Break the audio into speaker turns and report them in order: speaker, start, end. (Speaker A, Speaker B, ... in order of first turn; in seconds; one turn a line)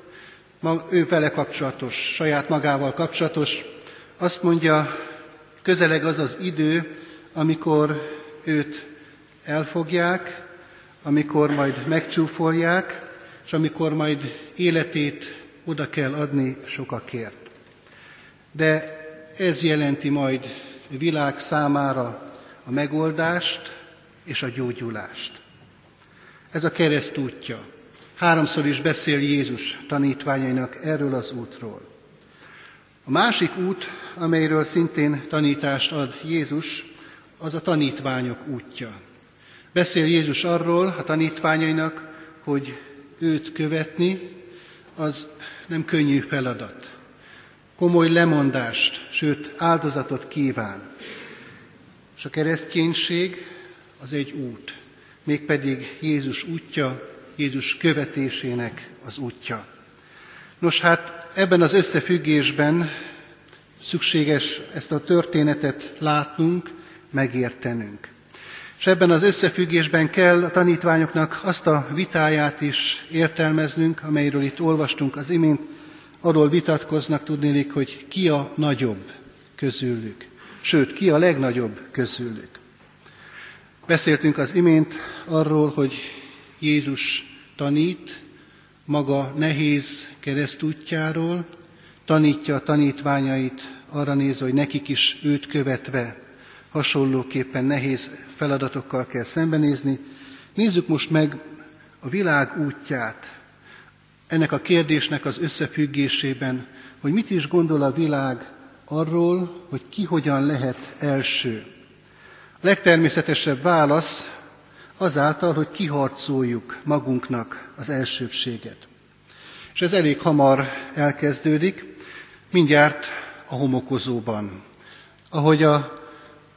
Speaker A: 0.6-4.9
Speaker A: 5.6-8.9
Speaker A: 9.4-10.4
Speaker A: 11.0-17.4
Speaker A: 18.5-23.7
Speaker A: 24.3-25.4
Speaker A: 26.5-27.6
Speaker A: 28.2-31.9
Speaker A: 33.0-38.9
Speaker A: 39.7-44.3
Speaker A: 45.0-46.9
Speaker A: 47.8-50.9
Speaker A: 52.2-53.4
Speaker A: 54.0-59.6
Speaker A: 60.6-62.9
Speaker A: 63.8-68.1
Speaker A: 68.8-75.7
Speaker A: 76.2-82.6
Speaker A: 83.9-88.2
Speaker A: 88.9-91.5
Speaker A: 92.1-96.2
Speaker A: 96.7-100.0
Speaker A: 100.5-101.4
Speaker A: 102.0-103.3
Speaker A: 104.3-111.7
Speaker A: 112.6-114.3
Speaker A: 115.0-118.8
Speaker A: 119.8-121.9
Speaker A: 122.5-124.6
Speaker A: 125.3-126.0